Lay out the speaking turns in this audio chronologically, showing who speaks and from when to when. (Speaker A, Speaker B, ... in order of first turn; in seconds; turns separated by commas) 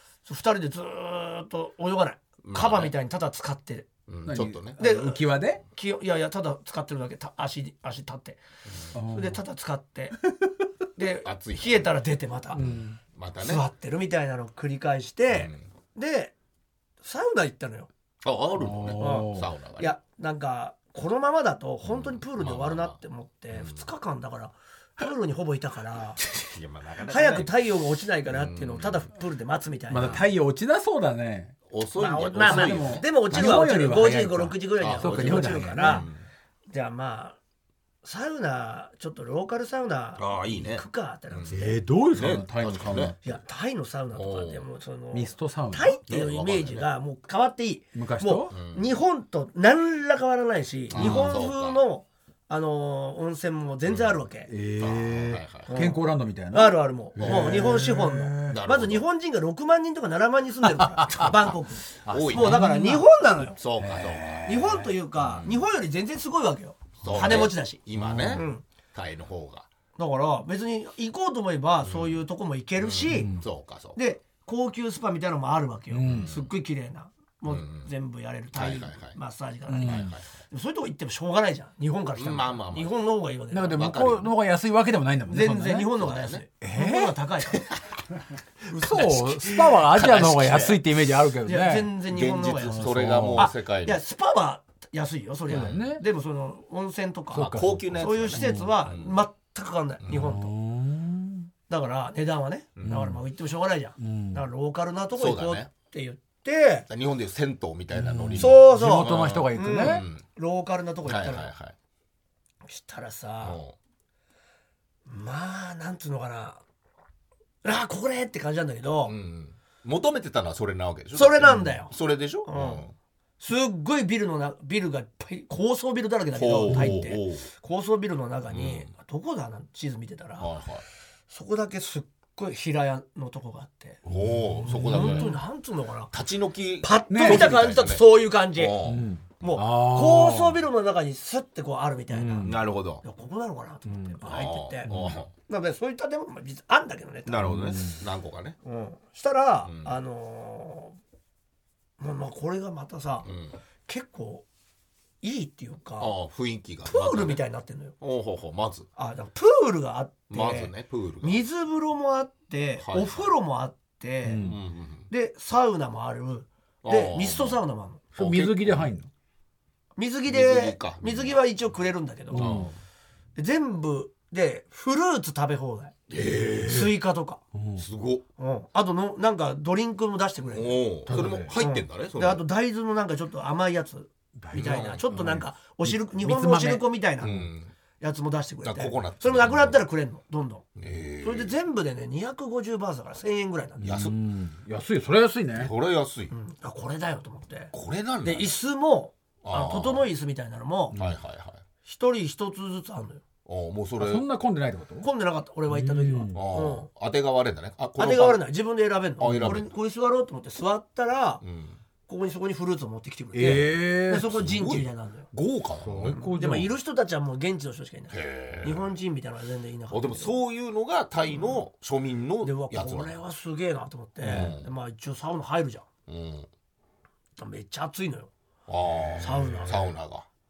Speaker A: 0.2-3.9, Speaker B: 2.4-2.9, Speaker B: 4.1-4.8, Speaker C: 4.3-5.6, Speaker A: 4.8-8.4, Speaker C: 8.9-9.4, Speaker A: 9.1-10.2, Speaker A: 10.9-12.6, Speaker B: 11.2-11.9, Speaker C: 12.5-13.0, Speaker B: 12.6-13.6, Speaker A: 13.4-16.3, Speaker B: 15.3-15.6, Speaker A: 17.0-17.9, Speaker B: 18.2-19.9, Speaker C: 18.6-19.5, Speaker A: 19.0-26.2, Speaker B: 21.8-23.0, Speaker B: 23.5-23.8, Speaker B: 26.2-27.7, Speaker A: 27.1-30.2, Speaker B: 28.3-29.1, Speaker C: 29.9-31.5, Speaker B: 31.7-33.7, Speaker A: 32.0-36.1, Speaker C: 32.4-36.1, Speaker B: 34.8-36.2, Speaker A: 36.7-37.4, Speaker A: 38.0-41.8, Speaker B: 40.2-41.6, Speaker C: 41.5-43.4, Speaker B: 42.1-43.2, Speaker A: 43.2-54.5, Speaker B: 44.1-44.6, Speaker C: 45.1-46.0, Speaker B: 46.1-46.9, Speaker C: 47.9-48.5, Speaker B: 48.5-48.9, Speaker B: 50.9-51.8, Speaker C: 50.9-51.3, Speaker B: 53.9-54.1, Speaker C: 54.5-58.6, Speaker B: 54.8-55.7, Speaker A: 55.7-63.6, Speaker B: 57.2-57.8, Speaker B: 58.5-59.0, Speaker C: 60.6-61.5, Speaker C: 62.0-63.1, Speaker B: 62.1-62.7, Speaker B: 63.6-64.4, Speaker C: 63.8-65.0, Speaker A: 64.5-67.8, Speaker B: 65.2-65.6, Speaker B: 67.0-69.7, Speaker C: 67.0-68.4, Speaker A: 68.3-68.6, Speaker A: 70.0-73.3, Speaker B: 71.8-72.2, Speaker B: 72.8-74.0, Speaker C: 73.1-73.4, Speaker A: 73.9-83.9, Speaker C: 75.9-76.3, Speaker B: 76.0-76.5, Speaker B: 77.5-77.9, Speaker B: 78.5-79.2, Speaker C: 79.7-80.1, Speaker B: 79.8-80.2, Speaker B: 82.2-82.9, Speaker C: 83.5-85.9, Speaker B: 83.7-84.3, Speaker A: 85.3-87.7, Speaker B: 86.0-86.4, Speaker C: 86.6-87.2, Speaker B: 88.7-90.8, Speaker C: 88.7-91.9, Speaker A: 91.4-100.5, Speaker B: 92.1-94.0, Speaker C: 92.6-93.5, Speaker B: 95.5-95.8, Speaker C: 95.5-96.0, Speaker C: 97.3-98.8, Speaker B: 97.4-99.2, Speaker C: 100.1-101.5, Speaker A: 101.7-106.9, Speaker C: 102.8-103.2, Speaker C: 104.0-104.4, Speaker B: 105.2-105.7, Speaker B: 106.9-110.2, Speaker C: 107.9-110.0, Speaker A: 108.4-111.5, Speaker B: 111.0-111.7, Speaker A: 112.7-113.6, Speaker B: 113.4-113.7, Speaker A: 115.0-116.6, Speaker A: 117.6-119.1, Speaker B: 119.0-122.9, Speaker A: 121.1-121.9, Speaker C: 121.5-121.7, Speaker A: 122.4-122.8, Speaker A: 123.4-130.5, Speaker B: 126.3-127.5, Speaker C: 126.7-127.0, Speaker B: 128.5-128.9, Speaker B: 130.4-130.8, Speaker A: 131.3-134.0, Speaker C: 134.1-135.3, Speaker B: 134.1-135.4, Speaker A: 134.8-136.1, Speaker B: 136.1-139.1, Speaker A: 136.8-138.7, Speaker C: 137.1-137.6, Speaker C: 138.8-140.6, Speaker A: 139.4-147.5, Speaker C: 142.1-142.6, Speaker B: 142.4-143.0, Speaker C: 143.9-144.2, Speaker B: 144.2-145.3, Speaker C: 144.9-145.2, Speaker B: 147.2-148.6, Speaker C: 147.4-148.0, Speaker A: 148.6-151.0, Speaker B: 149.7-149.9, Speaker A: 152.0-153.3, Speaker B: 153.2-153.6, Speaker A: 153.8-154.4, Speaker A: 155.2-156.1, Speaker B: 156.0-157.4, Speaker A: 156.8-157.9, Speaker B: 158.0-158.9, Speaker A: 158.9-164.5, Speaker B: 160.3-161.4, Speaker B: 162.8-163.3, Speaker C: 164.2-164.6, Speaker B: 164.4-165.1, Speaker A: 165.1-168.0, Speaker B: 166.8-167.6, Speaker B: 168.1-168.9, Speaker C: 168.2-169.1, Speaker A: 169.9-172.6, Speaker B: 170.3-171.4, Speaker C: 172.3-172.7, Speaker B: 172.3-172.7, Speaker A: 173.3-175.9, Speaker B: 176.1-176.9, Speaker C: 176.5-176.8, Speaker A: 176.6-177.4, Speaker C: 177.5-177.8, Speaker B: 177.8-178.2, Speaker A: 178.4-187.3, Speaker B: 180.5-182.4, Speaker C: 181.1-181.5, Speaker C: 184.4-187.4, Speaker B: 184.5-185.3, Speaker B: 187.2-187.7, Speaker A: 188.0-190.6, Speaker B: 188.6-189.8, Speaker B: 190.8-191.5, Speaker A: 191.2-193.9, Speaker C: 193.8-195.7, Speaker B: 193.8-194.1, Speaker B: 195.6-196.3, Speaker A: 196.3-197.7, Speaker B: 197.7-198.5, Speaker A: 198.2-201.0, Speaker B: 199.4-200.1, Speaker B: 200.9-201.6, Speaker A: 201.8-203.2, Speaker B: 203.4-204.2, Speaker C: 204.0-205.1, Speaker A: 205.0-206.9, Speaker C: 205.7-206.4, Speaker B: 206.3-208.4, Speaker A: 208.0-211.4, Speaker B: 209.2-209.7, Speaker B: 211.4-211.8, Speaker A: 212.1-215.3, Speaker C: 213.3-214.3, Speaker B: 214.2-216.2, Speaker C: 215.8-216.7, Speaker A: 216.1-220.3, Speaker B: 218.1-218.9, Speaker B: 219.9-223.1, Speaker A: 222.4-225.8, Speaker B: 224.2-224.7, Speaker C: 224.2-224.5, Speaker B: 226.1-226.5, Speaker A: 227.4-228.3, Speaker B: 228.7-230.2, Speaker A: 229.2-229.9